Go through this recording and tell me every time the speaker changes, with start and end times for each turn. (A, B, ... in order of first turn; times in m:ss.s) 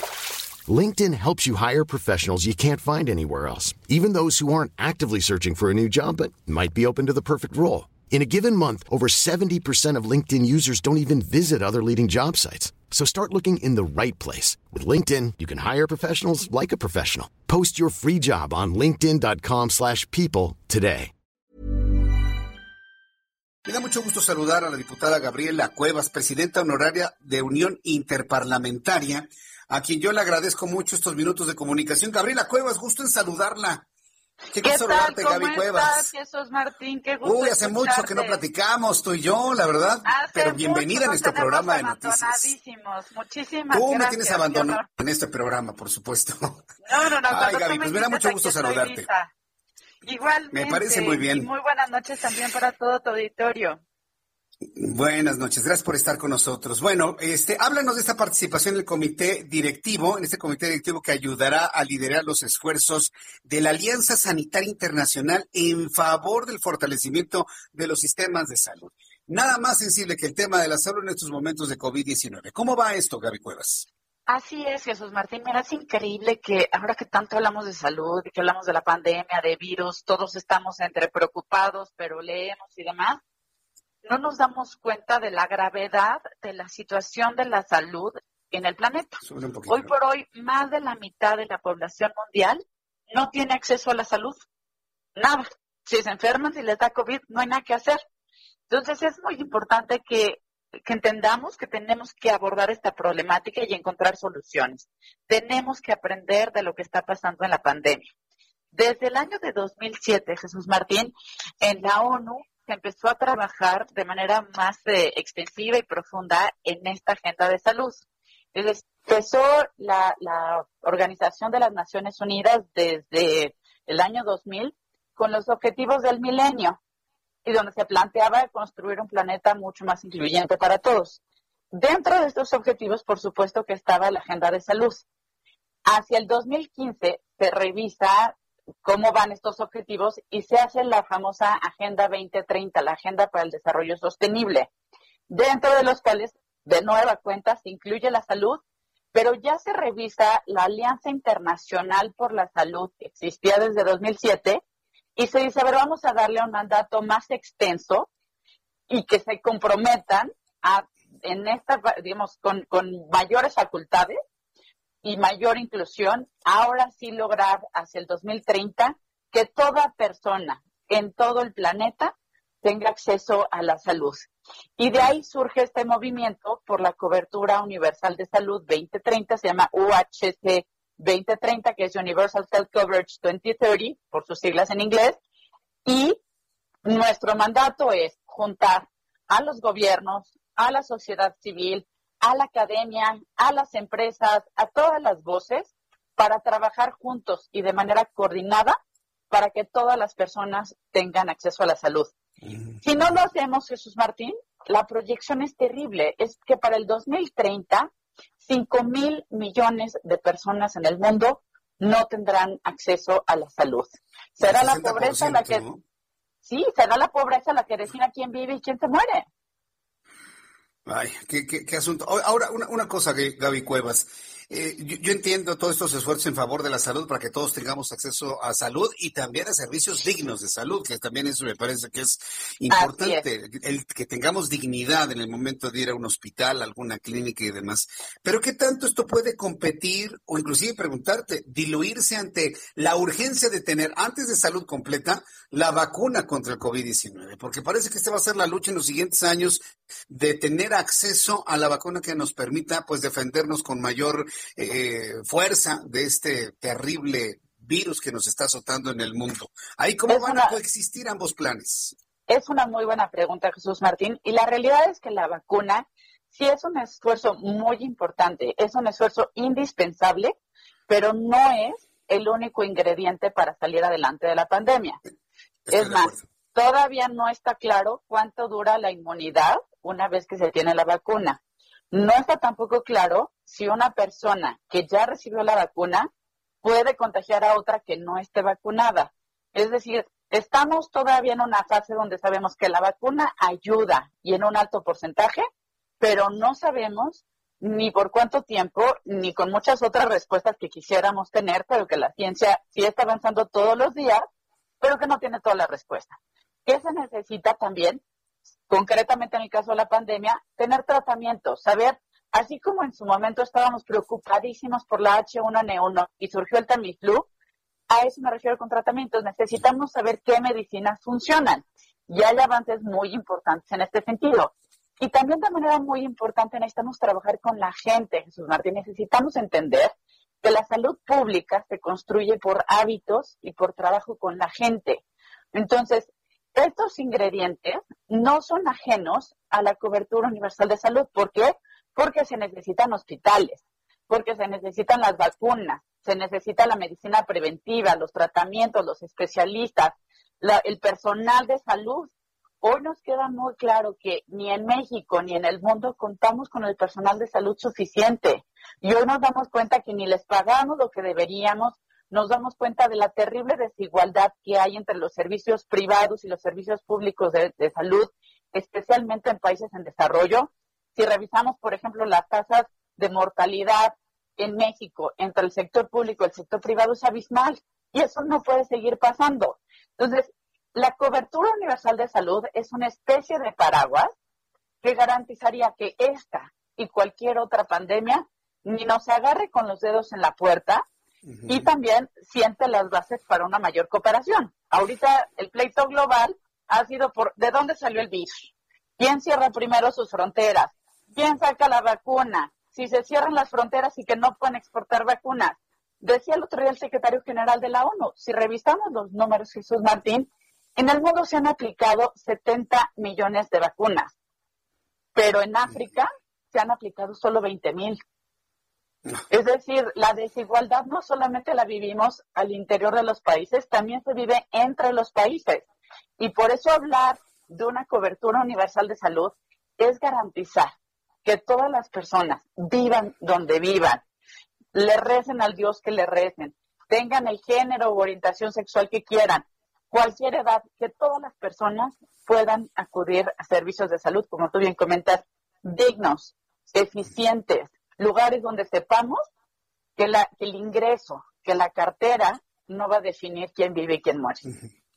0:00.7-0:21.1 A
0:23.6-0:33.8 B
0:34.5-0:36.1 B
0:34.6-0:38.4 C
0:37.2-0:42.5 B
0:40.0-0:44.9 C
0:43.7-0:46.6 B
0:46.8-0:49.3 C
0:47.3-0:49.1 B
0:50.0-0:53.8 C
0:50.5-0:51.5 B
0:54.8-1:13.9 B
1:14.3-1:23.2 C
1:24.0-1:32.6 C
1:29.2-1:29.9 B
1:33.1-1:34.4 C
1:35.2-1:38.0 C
1:38.7-1:48.0 C
1:48.7-2:06.8 C
2:07.4-2:11.2 C
2:11.7-2:15.0 C
2:15.8-2:24.7 C
2:25.3-2:28.6 C
2:29.1-2:34.6 C
2:35.2-2:38.1 C
2:38.9-2:44.2 C
2:45.0-3:05.2 C
3:05.8-3:06.2 C
3:06.8-3:18.8 C
3:19.3-3:22.1 C
3:22.8-3:35.6 C
3:34.4-3:35.8 B
3:36.4-3:39.2 C
3:40.8-4:21.9 B
3:52.7-3:53.2 C
4:20.1-4:20.6 C
4:22.3-4:30.3 C
4:30.9-4:35.0 C
4:35.7-4:36.2 B
4:35.7-4:41.4 C
4:41.9-4:46.1 C
4:46.6-4:55.4 C
4:56.0-5:04.2 C
5:04.8-5:08.0 C
5:08.7-5:17.3 C
5:17.9-5:29.9 C
5:30.4-5:35.0 C
5:35.5-6:24.1 C
6:24.8-6:30.8 C
6:31.4-6:54.1 C
6:55.1-6:58.0 C
6:59.3-7:05.6 C
7:06.2-7:14.0 C
7:14.7-7:29.2 C
7:30.0-7:34.5 C